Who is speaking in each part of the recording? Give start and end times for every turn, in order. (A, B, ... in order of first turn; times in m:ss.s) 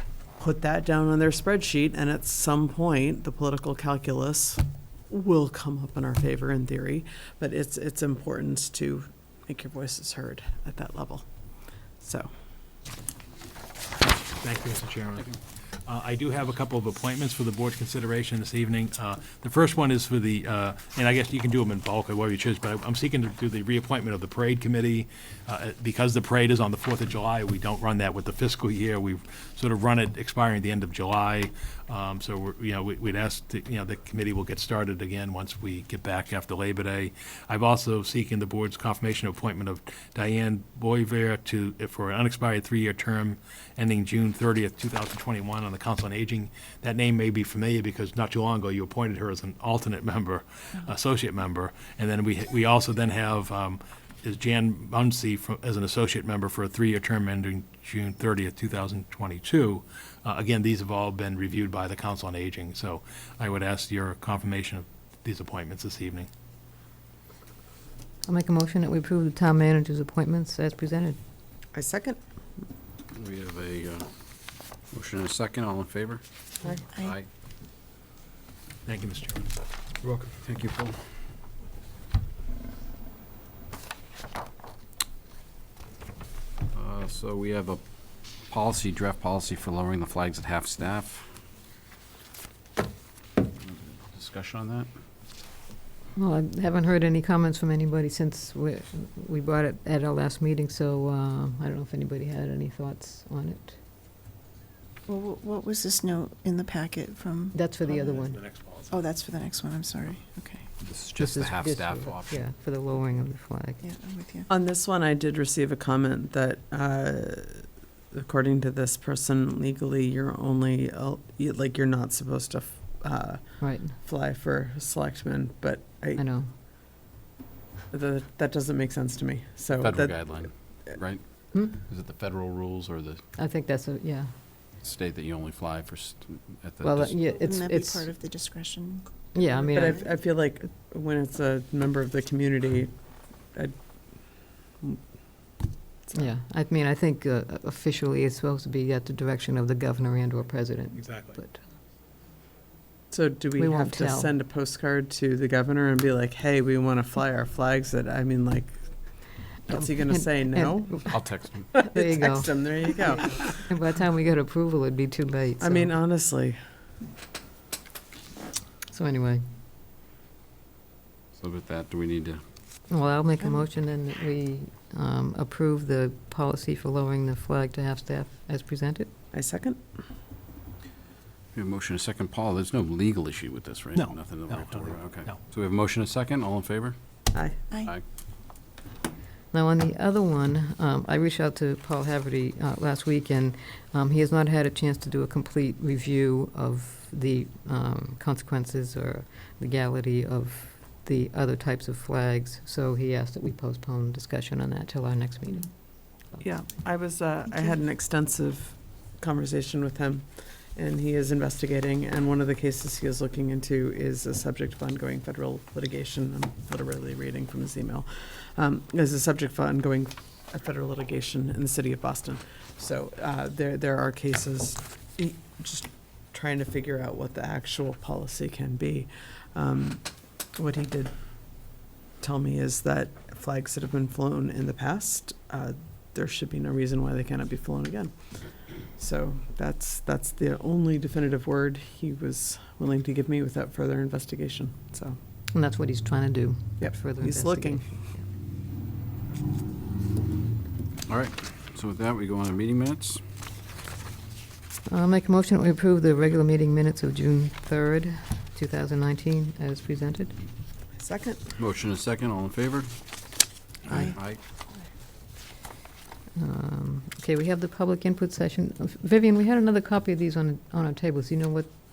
0:00.4-0:12.3 A
0:14.3-1:06.3 B
1:08.3-1:11.2 C
1:11.7-1:12.2 A
1:13.1-1:14.1 D
1:14.9-1:16.2 D
1:16.9-1:17.3 D
1:18.8-1:19.5 B
1:20.0-1:20.3 B
1:20.4-1:21.0 D
1:26.7-1:27.8 D
1:28.4-1:31.3 D
1:33.6-1:34.9 D
1:36.2-1:43.8 C
1:45.1-1:48.2 E
1:47.5-1:48.4 C
1:48.1-1:49.1 B
1:48.9-1:50.7 E
1:50.8-1:52.5 D
1:51.2-1:53.8 C
1:53.8-1:54.5 E
1:54.5-2:06.3 A
2:03.6-2:03.9 C
2:06.2-2:06.5 C
2:07.9-2:10.4 A
2:09.8-2:13.2 D
2:13.4-2:14.3 C
2:14.8-2:17.2 D
2:16.8-2:18.1 C
2:17.3-2:20.1 E
2:19.3-2:20.0 C
2:19.7-2:23.0 A
2:23.5-2:25.1 A
2:26.1-2:31.6 C
2:31.0-2:31.4 B
2:33.1-2:43.6 A
2:33.6-2:34.3 C
2:39.8-2:46.0 C
2:41.1-2:41.7 D
2:45.6-2:46.6 A
2:48.9-2:49.4 C
2:51.4-2:52.4 D
2:52.9-2:59.1 C
2:59.3-2:59.8 A
3:01.5-3:07.0 D
3:04.0-3:05.4 B
3:07.3-3:07.6 A
3:09.5-3:26.4 C
3:26.4-4:05.2 A
4:05.5-4:08.3 C
4:06.8-4:08.0 A
4:11.1-4:13.2 D
4:14.9-4:20.4 C
4:21.0-4:21.6 A
4:21.6-4:22.9 D
4:23.9-4:24.4 D
4:26.4-4:31.7 C